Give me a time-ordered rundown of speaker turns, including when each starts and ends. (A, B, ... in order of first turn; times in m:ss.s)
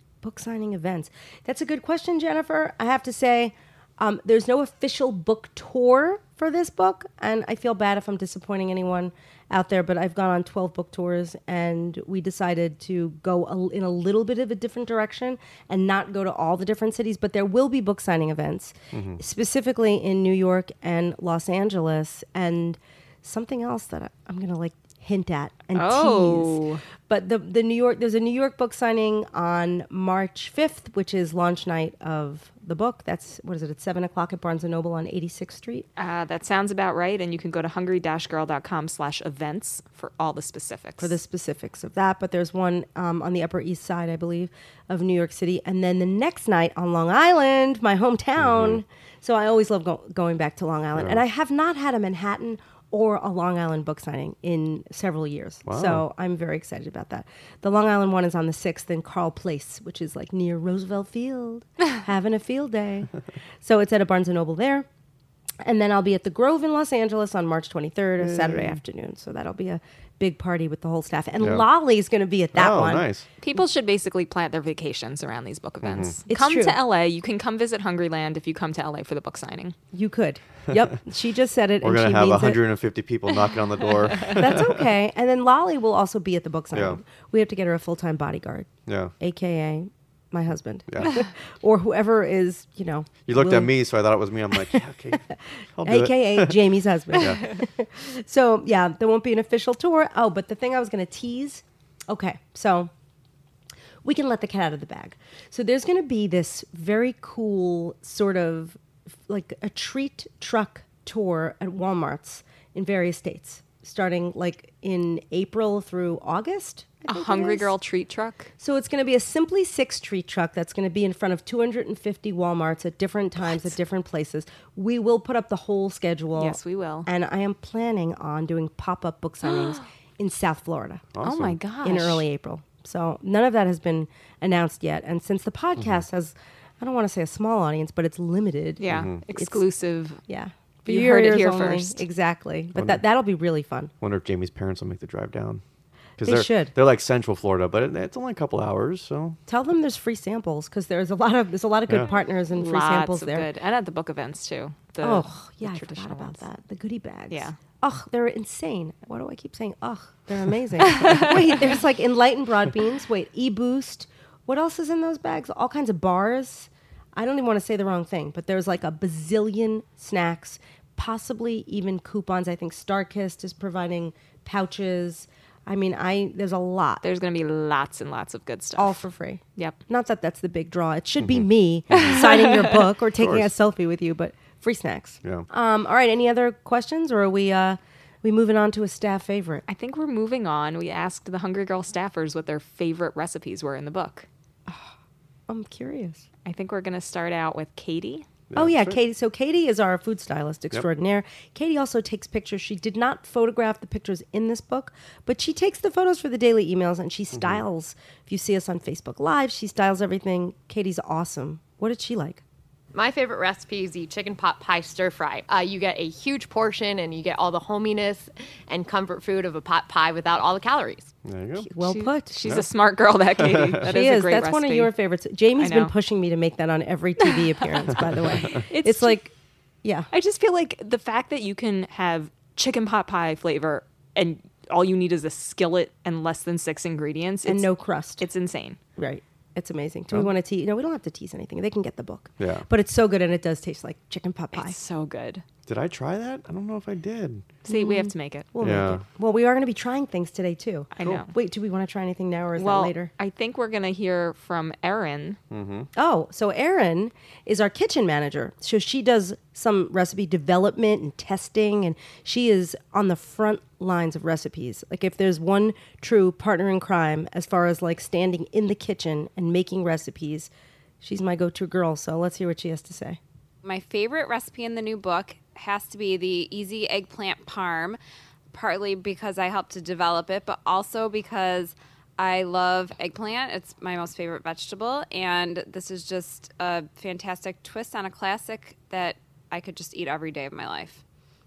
0:00.2-0:35.8 A
0:18.9-0:19.2 B
0:25.7-0:26.8 C
0:36.0-0:41.2 C
0:41.0-1:03.1 A
0:48.4-0:48.8 B
0:50.9-0:51.2 B
0:55.7-0:56.0 B
1:03.6-1:04.9 A
1:05.6-1:13.1 A
1:08.2-1:08.8 B
1:11.4-1:11.7 B
1:12.5-1:13.2 B
1:13.4-1:19.8 C
1:15.8-1:16.2 B
1:16.3-1:16.8 A
1:19.9-1:22.6 A
1:21.8-1:24.9 B
1:24.2-1:33.7 A
1:26.7-1:27.0 B
1:28.9-1:29.1 B
1:33.3-1:35.2 B
1:35.8-1:37.4 B
1:35.8-1:42.9 A
1:44.0-1:57.7 A
1:57.1-1:58.5 C
1:58.6-2:11.1 A
2:03.4-2:03.7 C
2:06.4-2:07.1 C
2:11.1-2:11.6 B
2:11.2-2:12.2 C
2:11.8-2:19.6 A
2:15.8-2:16.0 B
2:18.8-2:20.2 C
2:18.9-2:19.2 B
2:20.3-2:23.9 A
2:20.9-2:22.0 C
2:22.8-2:23.0 B
2:24.0-2:25.6 B
2:26.2-2:29.4 B
2:26.2-2:26.7 A
2:29.5-2:33.5 A
2:32.5-2:36.4 C
2:35.0-2:57.0 A
2:37.3-2:37.6 C
2:57.0-2:59.0 C
2:58.8-3:09.6 A
3:01.2-3:03.5 B
3:02.2-3:02.6 C
3:09.7-3:14.3 C
3:14.7-3:14.9 A
3:15.5-3:16.2 A
3:16.4-3:18.2 C
3:18.5-3:19.0 B
3:18.5-3:32.4 A
3:27.3-3:27.6 B
3:32.9-3:41.1 D
3:41.2-3:41.7 B
3:41.7-3:42.5 A
3:41.8-3:44.9 C
3:43.4-3:43.9 B
3:43.8-3:49.3 A
3:45.6-3:45.9 C
3:48.0-3:49.2 C
3:49.8-3:50.1 A
3:50.1-3:57.7 C
3:57.4-3:58.2 A
3:58.2-3:58.8 C
3:59.0-4:04.8 A
4:02.4-4:02.7 B
4:04.5-4:05.4 C
4:05.7-4:07.4 B
4:07.6-4:08.5 C
4:07.7-4:13.1 A
4:08.6-4:09.0 B
4:10.9-4:11.3 C
4:12.6-4:15.4 C
4:15.5-4:15.9 B
4:16.0-4:30.5 A
4:31.0-4:33.2 A
4:33.6-4:38.0 E
4:38.5-4:51.0 E